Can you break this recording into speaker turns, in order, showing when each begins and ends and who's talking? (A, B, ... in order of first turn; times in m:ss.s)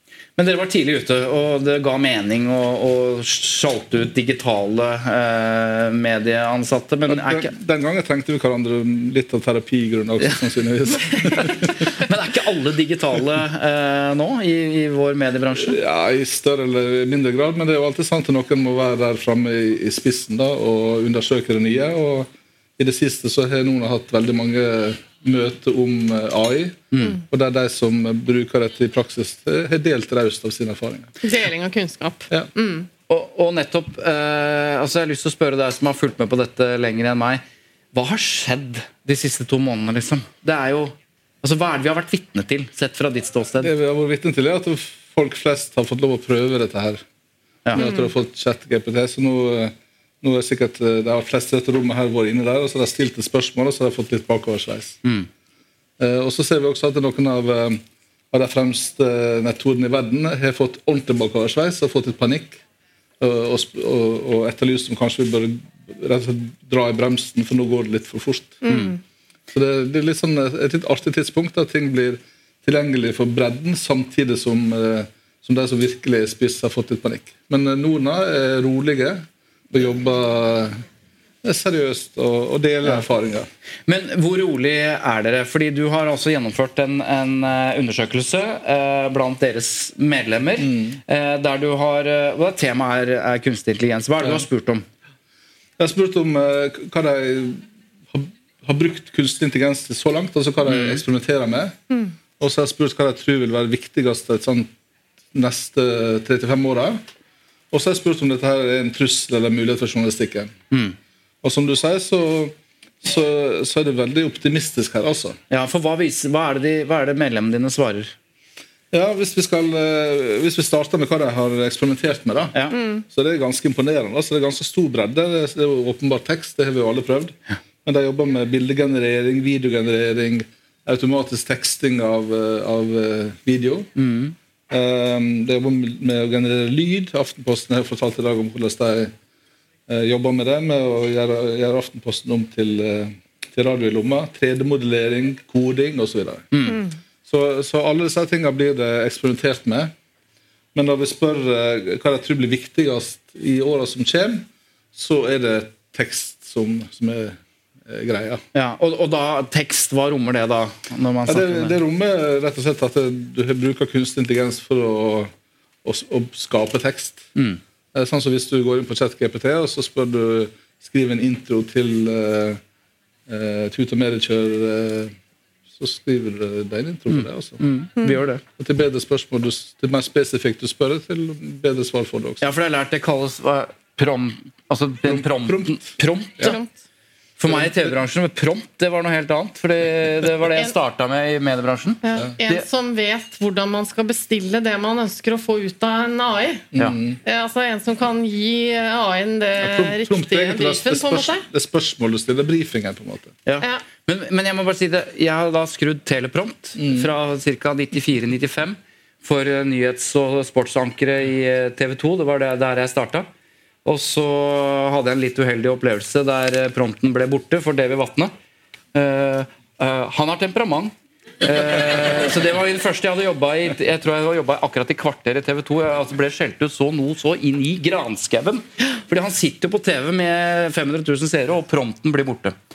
0:00.4-0:07.5 A
0:07.1-0:11.8 B
0:11.4-0:15.8 A
0:15.6-0:31.2 B
0:31.2-0:32.9 C
0:33.1-0:37.4 A
0:37.9-0:43.7 A
0:43.6-0:47.0 B
0:47.7-0:55.0 B
0:47.8-0:48.1 C
0:56.0-1:02.6 B
1:03.2-1:08.6 B
1:08.6-1:09.0 C
1:08.7-1:09.0 A
1:09.5-1:20.8 B
1:21.4-1:23.5 B
1:23.9-1:34.8 A
1:30.6-1:31.0 B
1:35.8-1:41.8 B
1:40.7-1:41.0 A
1:42.4-1:44.7 B
1:45.3-1:47.0 B
1:47.7-1:50.6 B
1:51.4-1:55.4 B
1:55.5-1:58.1 A
1:58.9-2:13.9 B
2:02.7-2:03.0 C
2:14.0-2:14.4 A
2:14.7-2:19.1 B
2:19.9-2:26.5 B
2:26.5-2:26.8 A
2:27.3-2:29.9 B
2:30.8-2:38.4 B
2:38.5-2:41.8 A
2:41.3-2:45.3 B
2:45.8-2:47.3 B
2:47.4-2:47.6 A
2:47.9-2:52.6 B
2:53.3-2:55.2 B
2:55.7-2:57.6 B
2:57.1-2:58.4 A
2:58.6-3:02.5 B
3:02.4-3:06.6 A
3:05.0-3:06.6 B
3:07.4-3:12.6 A
3:07.5-3:08.0 B
3:12.0-3:16.7 C
3:16.7-3:17.2 B
3:17.2-3:21.4 C
3:19.6-3:23.4 B
3:23.5-3:33.3 A
3:26.8-3:27.1 B
3:33.8-3:38.3 A
3:38.9-3:52.6 A